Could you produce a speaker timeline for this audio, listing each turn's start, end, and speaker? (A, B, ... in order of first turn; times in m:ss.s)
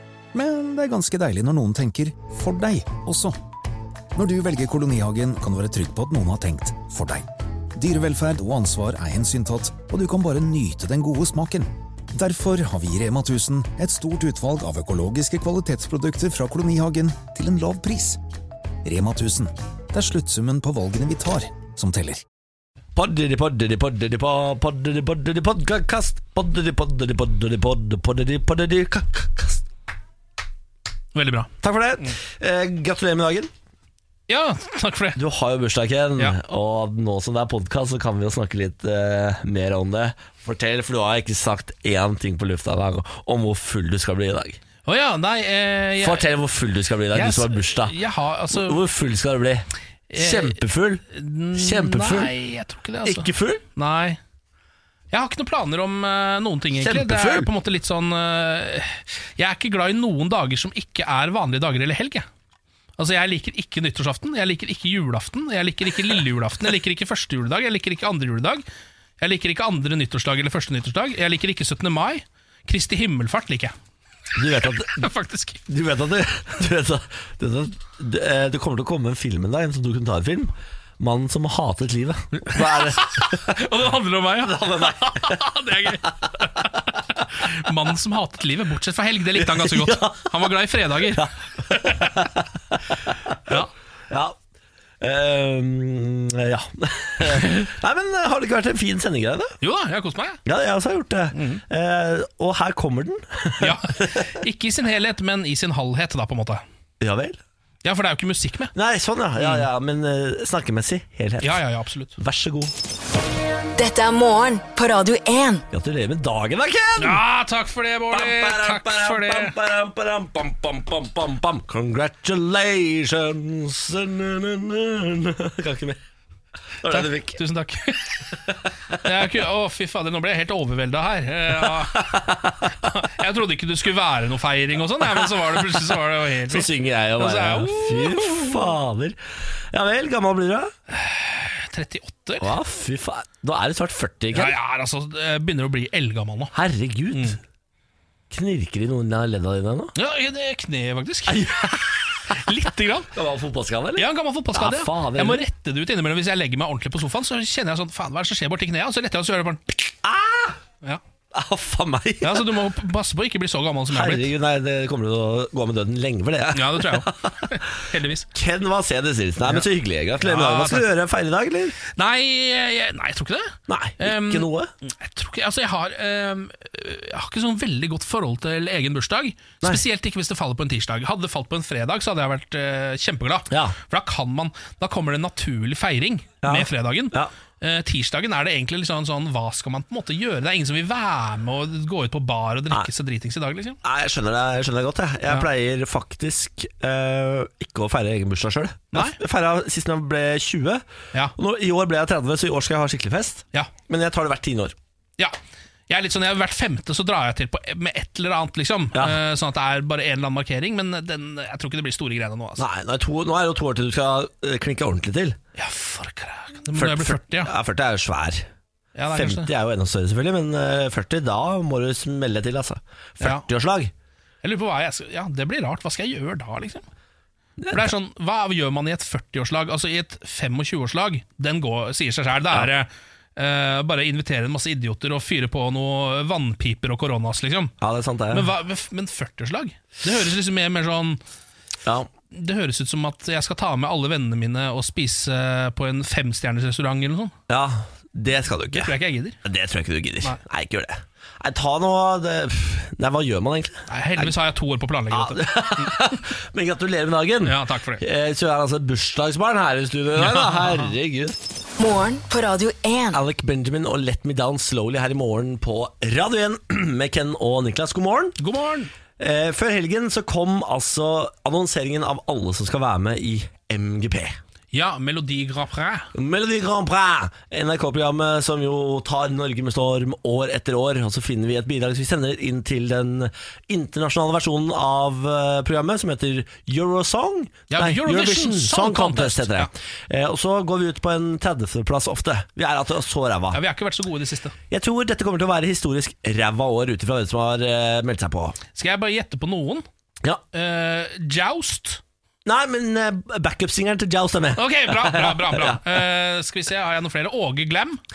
0:00.3-0:03.4 A
0:04.1-0:18.2 A
0:18.8-0:22.2 A
0:22.9-0:29.6 B
0:31.1-0:31.5 C
0:31.6-0:33.5 B
0:34.3-0:35.2 C
0:35.2-0:44.6 B
0:44.8-0:46.3 C
0:46.0-0:47.9 B
0:47.1-0:48.8 C
0:48.5-0:51.0 B
0:50.1-0:54.2 C
0:51.5-0:52.3 B
0:53.0-0:53.6 B
0:55.1-1:02.3 C
0:56.8-0:57.5 B
1:03.0-1:08.6 C
1:09.2-1:13.7 C
1:14.4-1:15.1 B
1:14.6-1:15.6 C
1:15.7-1:23.6 B
1:22.4-1:32.1 C
1:24.4-1:25.4 B
1:29.4-1:30.3 B
1:31.1-1:33.6 B
1:34.1-1:34.4 B
1:35.0-1:39.6 B
1:37.4-1:37.6 C
1:39.6-1:40.4 C
1:40.4-1:44.3 B
1:41.3-1:41.6 C
1:43.6-1:46.6 C
1:47.0-1:47.4 B
1:47.8-1:48.7 C
1:48.7-1:51.6 B
1:49.4-1:49.7 C
1:51.4-1:52.1 C
1:52.2-1:52.7 B
1:53.8-1:55.6 D
1:55.7-1:57.2 B
1:57.0-1:59.5 C
1:58.1-2:06.0 B
2:06.8-2:07.4 B
2:06.9-2:18.7 C
2:11.8-2:12.6 B
2:16.5-2:19.2 B
2:19.7-2:20.7 B
2:20.9-2:22.5 C
2:22.4-2:24.5 B
2:24.3-2:26.5 C
2:26.5-2:27.4 B
2:28.3-2:29.9 B
2:30.0-2:33.1 C
2:31.3-2:32.3 B
2:33.1-2:35.4 B
2:34.0-2:39.9 C
2:40.0-2:40.6 B
2:41.3-2:42.5 B
2:42.2-2:44.3 C
2:43.9-2:47.6 B
2:46.5-2:48.3 C
2:48.3-2:51.8 B
2:50.2-2:50.9 C
2:51.9-3:13.8 C
2:53.7-2:54.7 B
3:03.5-3:03.8 B
3:06.4-3:07.3 B
3:13.8-3:20.8 B
3:21.4-3:24.7 B
3:25.9-3:32.6 C
3:32.6-3:35.4 B
3:35.6-3:37.5 C
3:36.7-3:38.4 B
3:39.0-3:39.5 C
3:39.1-3:43.9 B
3:44.4-3:46.8 C
3:47.6-3:47.9 B
3:47.7-3:57.7 C
3:57.8-3:58.5 B
3:58.3-4:01.2 C
4:02.3-4:07.3 C
4:07.5-4:08.9 B
4:08.7-4:09.4 C
4:09.4-4:14.3 B
4:13.9-4:15.9 C
4:15.1-4:21.4 B
4:17.4-4:18.0 C
4:20.2-4:20.9 C
4:21.8-4:23.2 D
4:23.1-4:28.4 B
4:28.4-4:28.9 C
4:29.2-4:34.4 B
4:34.7-4:36.1 C
4:36.1-4:53.6 B
4:47.7-4:49.7 C
4:53.5-4:54.5 C
4:54.7-4:58.6 B
4:58.7-4:59.8 C
5:00.5-5:02.0 C
5:02.4-5:05.8 B
5:04.6-5:08.0 C